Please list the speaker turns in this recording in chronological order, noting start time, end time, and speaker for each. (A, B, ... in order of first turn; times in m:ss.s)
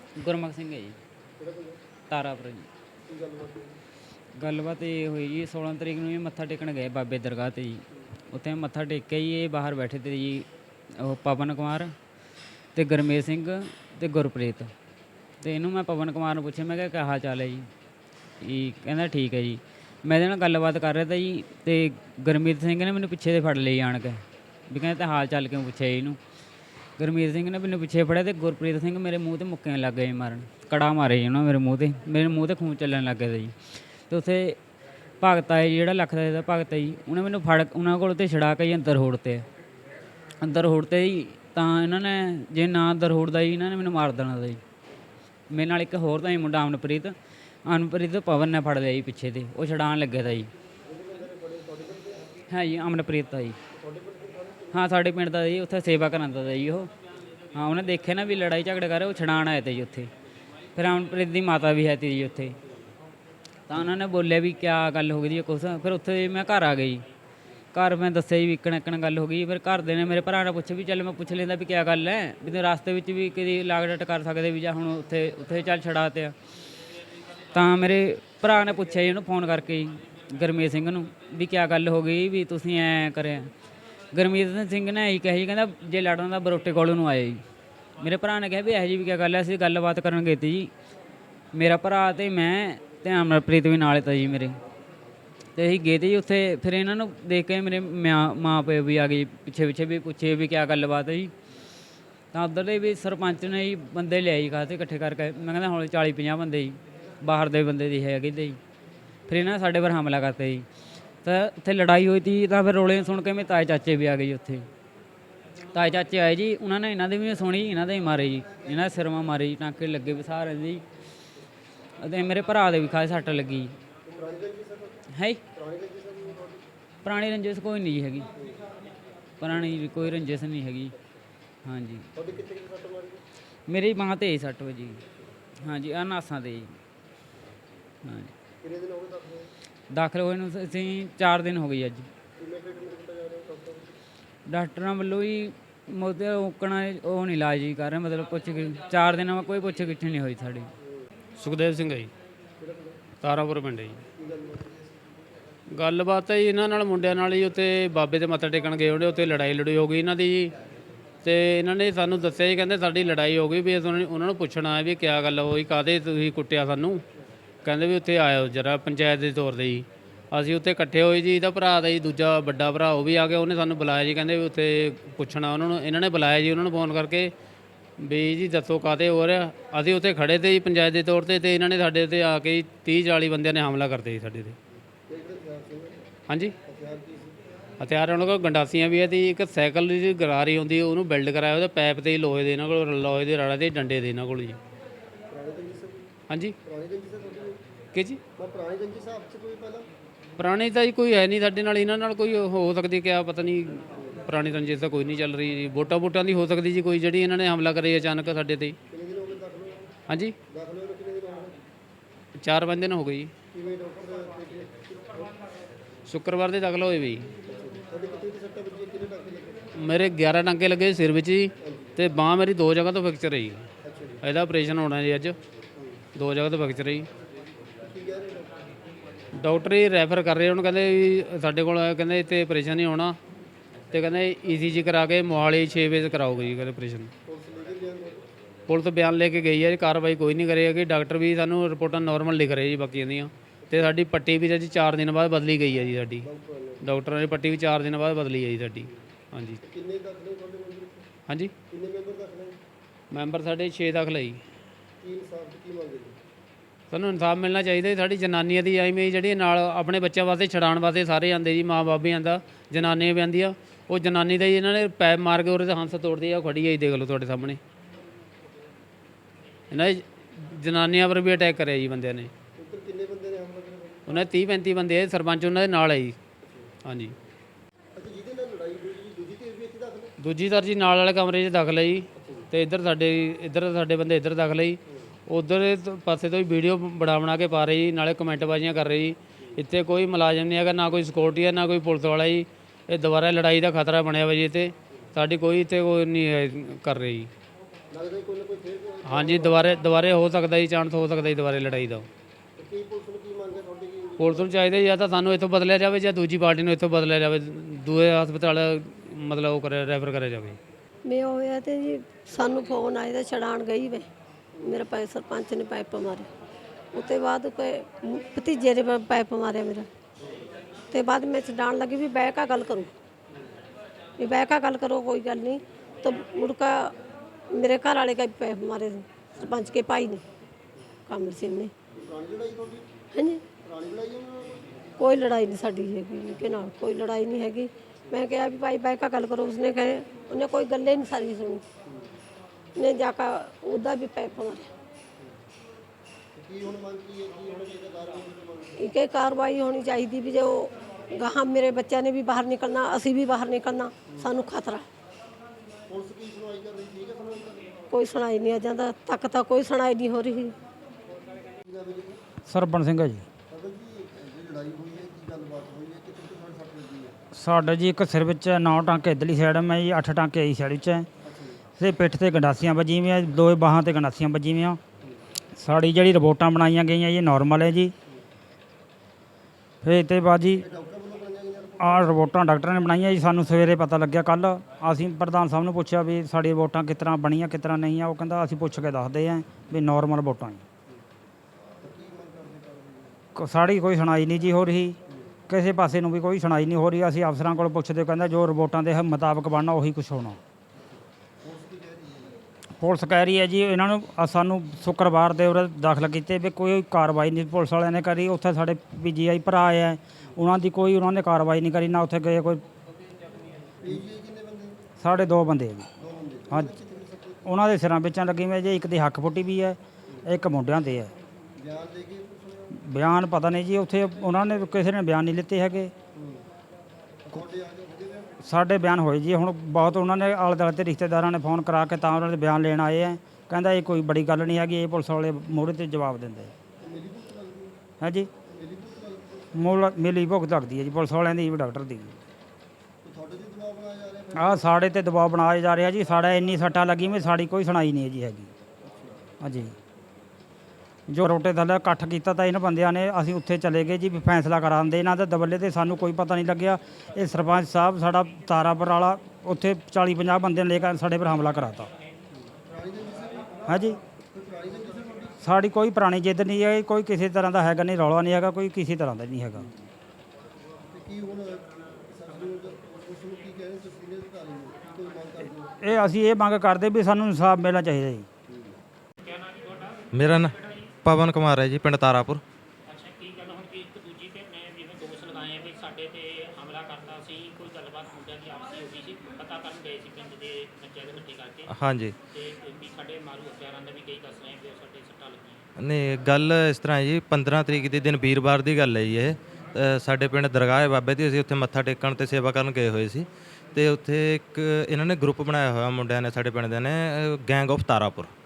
0:00.2-0:01.0 A
0:01.4-0:01.8 B
0:02.1-0:02.7 A
0:03.0-0:03.7 B
0:04.3-0:11.9 A
0:12.7-0:14.7 A
0:15.4-0:17.7 A
0:18.4-0:26.2 A
0:27.0-0:34.6 A
0:35.2-0:39.5 A
0:40.4-0:44.6 A
0:45.5-0:50.5 A
0:50.8-0:52.3 B
0:52.5-0:53.6 A
0:53.7-0:54.8 B
0:54.7-0:56.9 A
0:57.5-1:00.1 A
1:00.8-1:02.5 A
1:03.7-1:07.0 A
1:07.7-1:16.3 A
1:17.5-1:23.5 A
1:24.1-1:27.4 A
1:28.0-1:30.7 A
1:31.5-1:34.6 A
1:35.6-1:41.3 A
1:42.3-1:48.6 A
1:49.3-1:50.7 A
1:51.2-1:54.7 A
1:55.7-2:00.8 A
2:02.0-2:03.7 A
2:04.0-2:05.0 B
2:05.1-2:05.4 A
2:05.5-2:06.6 B
2:07.0-2:08.3 A
2:08.4-2:08.6 B
2:09.4-2:10.9 A
2:11.6-2:12.0 A
2:12.1-2:13.2 B
2:13.7-2:15.0 A
2:15.6-2:16.8 A
2:18.0-2:18.3 A
2:18.6-2:19.5 B
2:19.9-2:22.1 A
2:22.4-2:23.9 B
2:24.4-2:30.7 A
2:30.8-2:31.1 B
2:31.4-2:32.1 C
2:32.6-2:33.0 B
2:33.2-2:34.0 C
2:34.1-2:34.7 B
2:35.7-2:40.5 C
2:41.2-2:47.0 C
2:47.6-2:57.3 C
2:58.0-3:04.5 C
3:05.1-3:06.0 B
3:06.3-3:06.5 C
3:06.6-3:07.4 B
3:07.8-3:14.6 C
3:15.3-3:16.1 B
3:16.3-3:16.5 C
3:16.6-3:17.6 B
3:17.9-3:18.2 C
3:18.4-3:19.9 B
3:20.4-3:28.8 C
3:23.9-3:24.3 B
3:28.9-3:29.9 B
3:30.1-3:30.3 C
3:30.5-3:31.5 B
3:32.4-3:33.3 C
3:33.5-3:35.3 B
3:36.1-3:37.3 C
3:37.4-3:39.7 B
3:39.8-3:43.6 C
3:41.6-3:42.0 B
3:43.8-3:44.2 B
3:44.2-3:45.4 C
3:46.1-3:47.1 C
3:47.8-3:48.7 B
3:49.4-3:53.2 C
3:53.9-3:57.1 C
3:57.2-3:58.2 B
3:58.7-4:06.2 C
4:03.6-4:04.0 B
4:06.2-4:06.8 B
4:06.8-4:09.6 C
4:09.6-4:11.0 B
4:11.7-4:12.6 B
4:13.1-4:14.4 C
4:15.0-4:16.2 B
4:16.9-4:27.6 C
4:29.7-4:32.3 C
4:32.6-4:34.1 B
4:34.1-4:36.2 C
4:36.4-4:36.7 B
4:36.8-4:37.1 C
4:37.9-4:40.1 B
4:40.2-4:57.3 C
4:42.2-4:42.5 B
4:57.9-4:59.8 B
4:59.0-5:02.1 C
5:02.6-5:04.7 B
5:04.2-5:10.6 C
5:11.0-5:14.1 D
5:14.6-5:16.3 D
5:16.9-5:19.9 D
5:20.9-5:22.9 D
5:24.2-5:26.9 D
5:27.5-5:30.2 D
5:31.1-5:31.7 D
5:31.9-5:33.0 B
5:33.1-5:33.4 D
5:33.6-5:35.1 B
5:35.0-5:41.6 D
5:36.3-5:36.6 B
5:42.8-5:44.7 D
5:46.3-5:48.9 B
5:48.8-5:54.8 D
5:54.1-5:54.4 B
5:55.9-5:57.7 B
5:57.9-6:00.5 D
6:01.6-6:02.2 B
6:02.5-6:03.2 E
6:03.5-6:07.1 B
6:07.3-6:11.1 E
6:11.2-6:11.6 B
6:11.8-6:14.8 E
6:15.6-6:17.9 E
6:19.8-6:20.6 E
6:20.6-6:22.4 B
6:21.8-6:30.6 E
6:31.8-6:33.2 B
6:33.4-6:35.0 E
6:35.5-6:40.4 E
6:41.4-6:42.4 B
6:42.8-6:52.6 E
6:53.8-6:54.9 B
6:55.0-6:55.9 E
6:56.0-6:57.5 B
6:57.4-7:01.1 E
7:01.6-7:02.8 B
7:02.8-7:05.9 E
7:06.1-7:06.4 B
7:07.2-7:08.4 B
7:08.4-7:16.5 E
7:16.8-7:17.8 B
7:18.0-7:18.3 E
7:18.5-7:19.7 B
7:19.6-7:22.1 E
7:23.0-7:24.8 B
7:24.4-7:28.5 E
7:28.8-7:29.2 B
7:29.4-7:29.7 E
7:31.1-7:41.9 E
7:42.3-7:45.4 B
7:43.7-7:44.0 E
7:45.4-7:49.7 E
7:50.9-7:56.0 B
7:55.8-7:58.3 E
7:58.5-7:58.7 B
7:59.2-8:00.8 F
8:00.1-8:02.4 G
8:02.9-8:11.7 F
8:11.7-8:12.1 G
8:12.3-8:15.6 F
8:15.8-8:28.3 G